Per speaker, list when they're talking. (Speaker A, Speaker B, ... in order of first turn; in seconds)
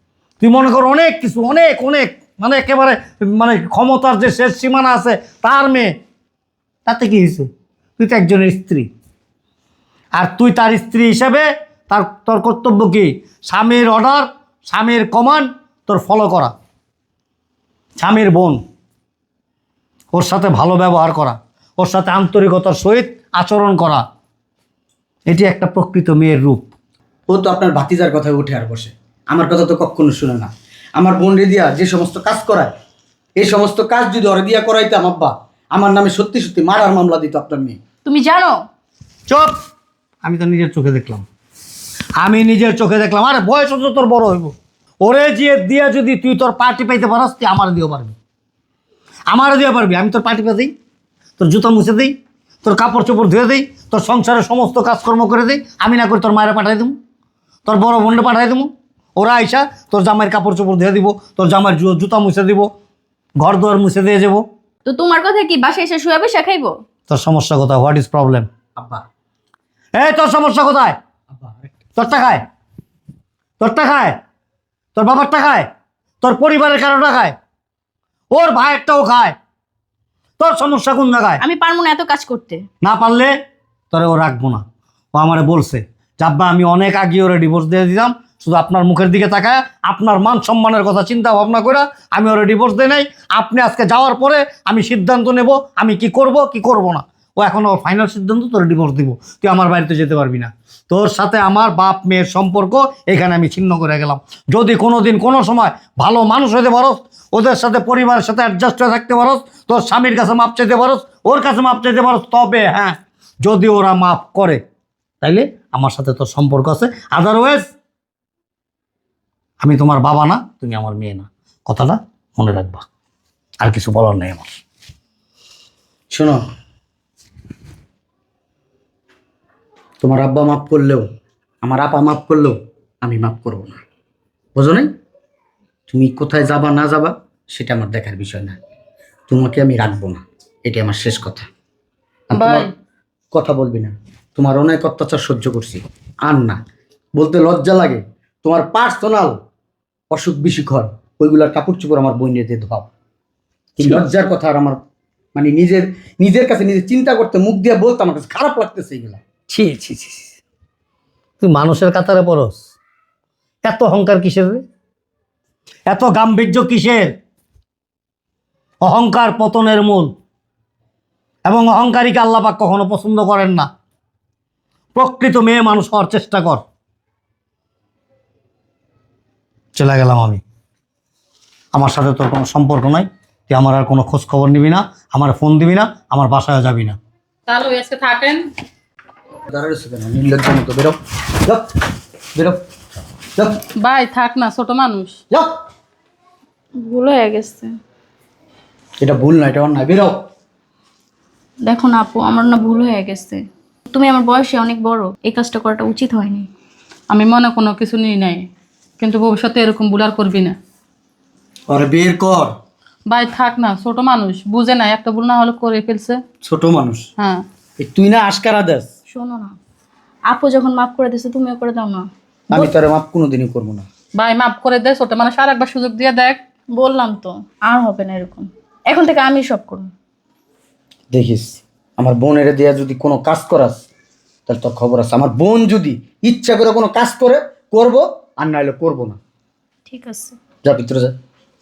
Speaker A: 0.4-5.9, 6.8-8.9, 10.1-16.5, 18.0-18.6, 20.1-24.0, 25.3-26.7, 39.3-39.5, 40.2-41.2, 42.2-48.1, 49.3-50.7, 51.4-57.0, 57.6-62.7, 63.4-64.4, 67.1-68.5, 69.9-71.0, 72.0-72.4, 73.6-74.2, 75.0-75.7, 76.2-77.3, 78.3-79.3, 80.4-81.4, 82.8-83.3, 83.9-84.6, 85.1-114.6, 115.2-117.7, 119.6-122.8, 123.6-124.5, 159.5-160.3, 161.4-162.6, 163.6-164.6, 165.8-167.1, 168.8-170.1, 171.4-173.7, 174.9-176.6, 179.8-180.4, 181.7-187.0
Speaker B: 27.3-32.7, 33.4-37.8, 68.8-69.0, 71.3-71.7, 126.1-126.4, 130.0-131.0, 131.6-133.8, 134.5-134.9, 135.9-138.6, 139.3-141.5, 142.3-142.7, 143.3-146.6, 147.1-149.4, 150.1-152.9, 153.8-154.8, 155.3-159.2, 189.5-191.7, 192.3-192.6, 193.3-193.6, 199.0-200.2, 211.7-212.5, 216.4-217.1, 217.8-218.9, 222.5-223.9, 231.1-233.8, 234.5-239.2, 240.6-241.1
Speaker C: 38.0-38.6, 64.8-66.8, 81.4-82.6, 196.8-197.7, 201.6-206.5, 219.1-219.6, 220.3-222.1, 226.7-229.9, 239.9-240.4
Speaker D: 142.3-142.7, 187.5-188.5, 193.8-195.2, 207.1-208.4, 209.0-210.6, 213.1-216.2, 224.2-226.4